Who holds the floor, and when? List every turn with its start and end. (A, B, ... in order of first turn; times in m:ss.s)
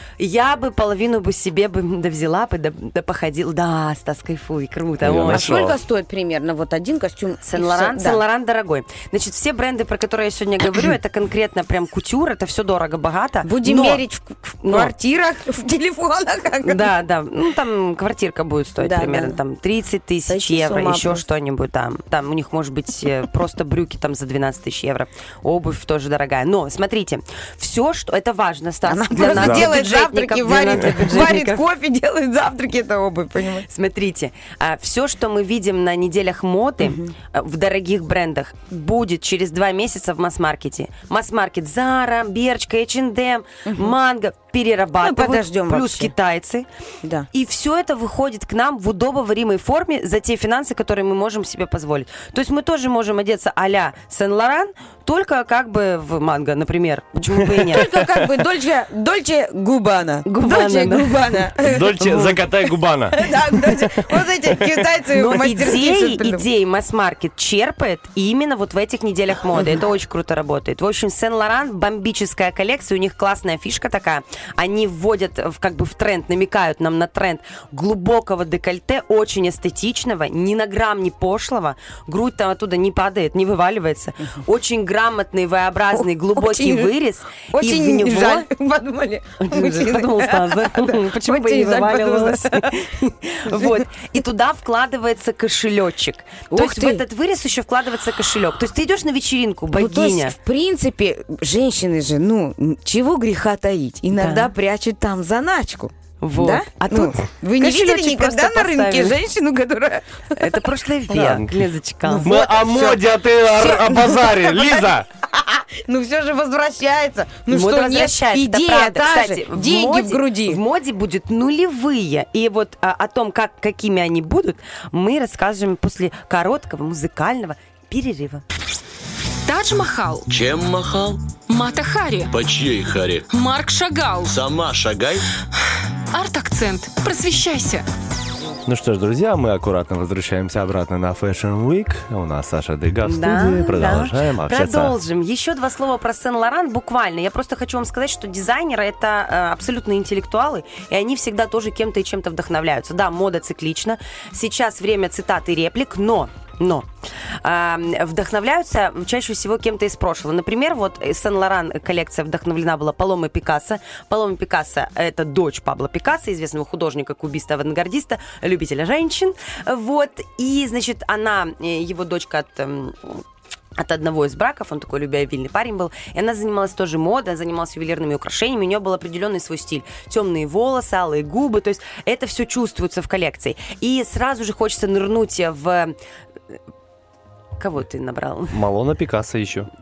0:00.2-0:05.6 A
0:05.0-0:05.8 B
0:05.3-0:08.2 C
0:07.4-0:14.0 A
0:13.4-0:17.0 C
0:14.5-0:14.9 A
0:16.6-0:31.6 A
0:18.8-0:19.4 C
0:20.3-0:21.2 C
0:28.8-0:33.7 C
0:29.2-0:29.7 B
0:30.8-0:31.1 B
0:33.7-0:46.7 A
0:36.8-0:37.1 C
0:43.6-0:43.9 C
0:45.0-0:46.1 C
0:47.3-0:57.9 A
0:57.7-1:06.4 C
0:57.7-0:58.3 B
1:00.2-1:01.5 A
1:01.6-1:04.8 B
1:05.1-1:28.5 A
1:25.9-1:26.9 C
1:27.5-1:32.8 C
1:29.4-1:40.3 A
1:33.4-1:34.1 C
1:36.5-1:37.0 C
1:39.7-1:50.7 C
1:44.1-1:44.5 A
1:46.2-1:49.2 A
1:50.4-1:52.3 A
1:51.1-1:51.5 B
1:52.0-1:53.0 C
1:52.2-1:55.0 B
1:53.5-2:00.6 C
1:57.5-2:08.4 A
2:09.4-2:10.2 D
2:10.3-2:11.3 E
2:11.5-2:12.3 D
2:12.3-2:13.3 E
2:13.3-2:14.4 D
2:14.2-2:15.2 E
2:16.1-2:17.8 D
2:18.6-2:24.9 B
2:23.0-2:36.9 A
2:37.4-2:53.2 A
2:53.8-3:05.9 A
3:07.6-3:08.6 A
3:08.5-3:09.7 B